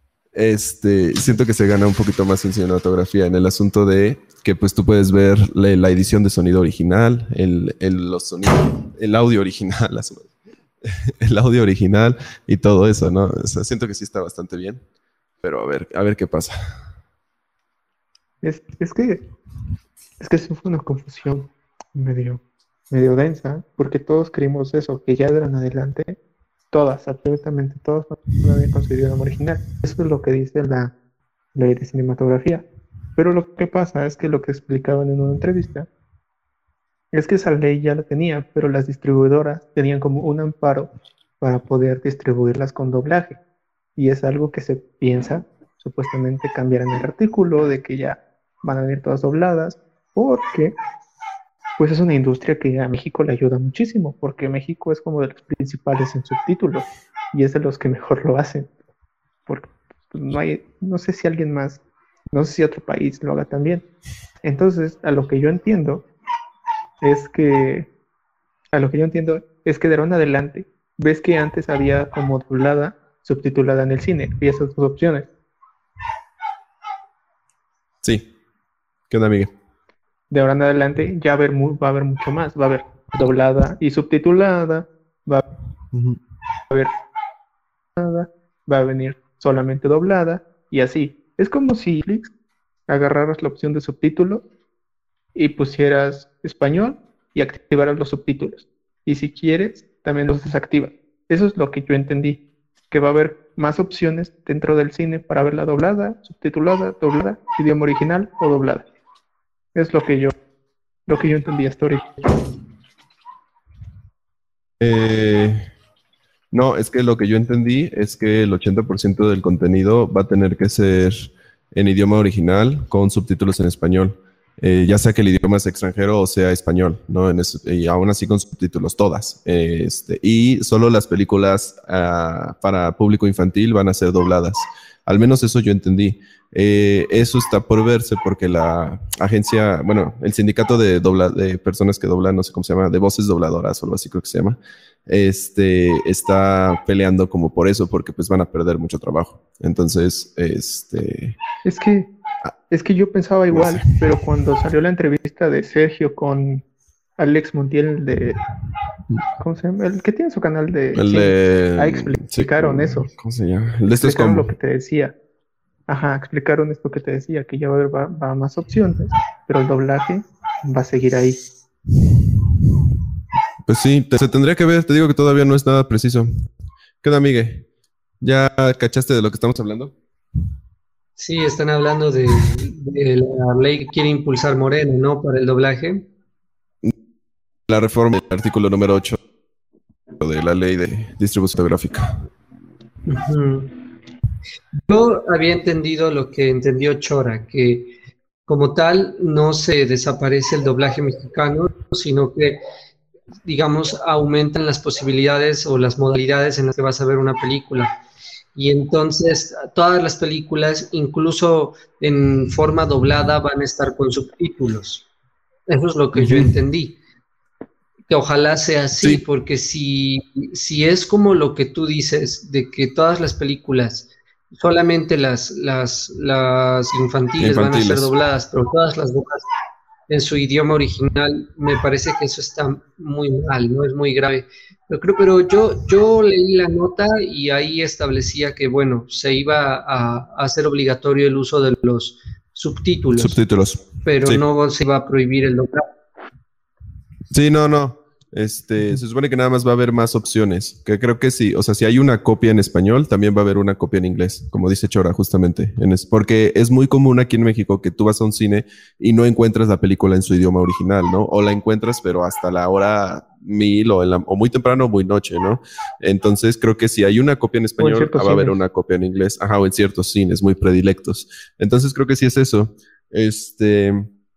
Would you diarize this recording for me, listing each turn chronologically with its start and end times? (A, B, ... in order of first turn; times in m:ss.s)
0:00.3-0:10.3 A
0:10.8-0:14.8 A
0:15.4-0:16.5 A
0:18.4-0:19.2 B
0:20.2-0:26.2 B
0:26.7-0:30.9 B
0:31.5-0:35.9 B
0:37.1-0:43.4 B
0:44.0-0:50.8 B
0:51.8-0:58.7 B
0:59.4-1:01.8 B
1:02.3-1:03.8 B
1:04.4-1:06.0 B
1:07.0-1:07.9 B
1:08.7-1:15.3 B
1:19.1-1:19.5 A
1:20.3-1:25.4 B
1:25.9-1:26.2 A
1:28.0-1:32.3 B
1:32.9-1:34.4 B
1:35.3-1:48.8 B
1:49.7-1:50.3 B
1:51.1-1:52.3 B
1:54.8-1:55.6 A
1:56.5-2:31.4 A
2:31.6-2:32.1 B
2:32.7-2:36.6 B
2:33.5-2:34.0 A
2:37.2-2:38.4 B
2:39.4-2:43.1 B
2:40.9-2:44.5 A
2:44.0-2:45.1 B
2:45.9-2:51.4 B
2:53.7-2:56.3 A
2:57.0-2:57.6 A
2:58.2-2:59.9 A
3:01.2-3:06.1 C
3:07.7-3:09.2 A
3:10.2-3:12.2 A
3:13.0-3:13.7 C
3:14.9-3:17.9 C
3:18.5-3:22.6 C
3:23.4-3:28.0 C
3:28.6-3:35.0 C
3:35.7-3:37.0 C
3:36.1-3:36.6 A
3:38.1-3:49.5 C
3:47.4-3:48.1 A
3:50.1-4:03.4 C
4:03.2-4:04.4 A
4:04.0-4:05.9 C
4:07.3-4:34.1 A
4:27.8-4:28.6 B